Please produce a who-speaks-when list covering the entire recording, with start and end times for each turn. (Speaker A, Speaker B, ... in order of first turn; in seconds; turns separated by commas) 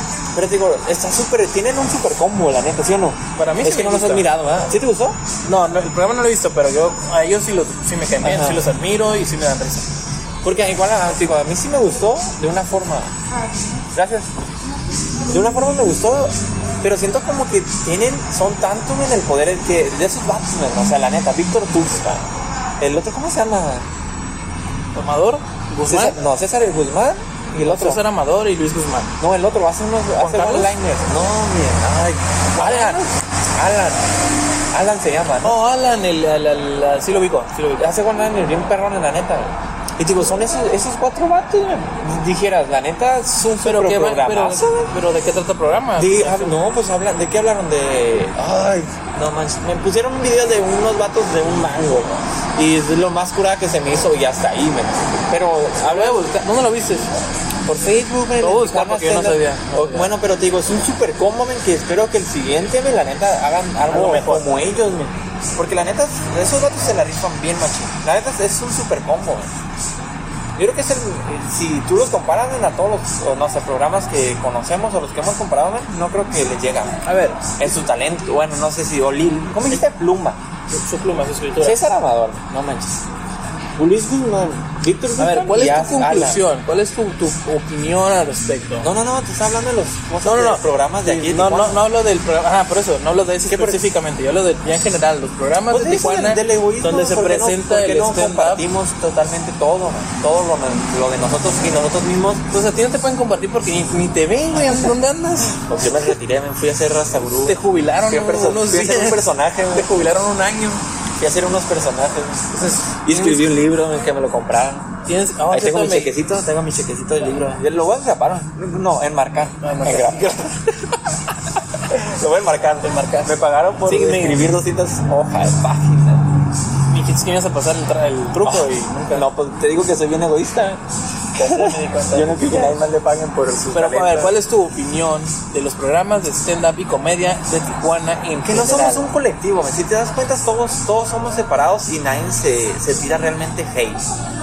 Speaker A: 0.3-5.2, Speaker B: 3.3-4.2, Speaker B: 5.4-9.8, Speaker A: 8.2-8.7, Speaker A: 10.4-13.1, Speaker A: 13.9-14.3, Speaker A: 15.3-22.3, Speaker A: 22.8-23.9, Speaker B: 24.9-26.2, Speaker A: 25.9-28.0, Speaker B: 27.6-29.1, Speaker A: 29.2-34.1, Speaker B: 30.2-30.7, Speaker B: 32.5-33.1, Speaker A: 34.7-35.6, Speaker B: 35.4-37.9, Speaker A: 37.8-44.9, Speaker B: 43.6-46.6, Speaker A: 46.0-56.3, Speaker B: 55.8-57.1, Speaker A: 57.6-69.5, Speaker B: 58.4-60.1, Speaker B: 63.9-64.6, Speaker A: 70.5-77.0, Speaker B: 77.0-77.5, Speaker A: 77.6-80.4, Speaker B: 80.7-81.8, Speaker A: 81.6-83.0, Speaker A: 83.8-86.4, Speaker B: 85.2-88.9, Speaker A: 88.8-91.8, Speaker B: 90.2-98.6, Speaker A: 93.5-93.8, Speaker A: 95.7-102.5, Speaker B: 102.5-105.7, Speaker A: 105.6-110.0, Speaker B: 107.5-110.8, Speaker A: 111.2-114.9, Speaker B: 112.5-113.4, Speaker B: 115.1-116.1, Speaker A: 115.5-121.2, Speaker B: 119.6-120.3, Speaker A: 121.7-126.2, Speaker B: 122.8-124.6, Speaker B: 126.9-129.3, Speaker A: 128.4-130.8, Speaker A: 131.3-134.4, Speaker B: 131.4-132.8, Speaker B: 133.7-139.1, Speaker A: 138.4-144.1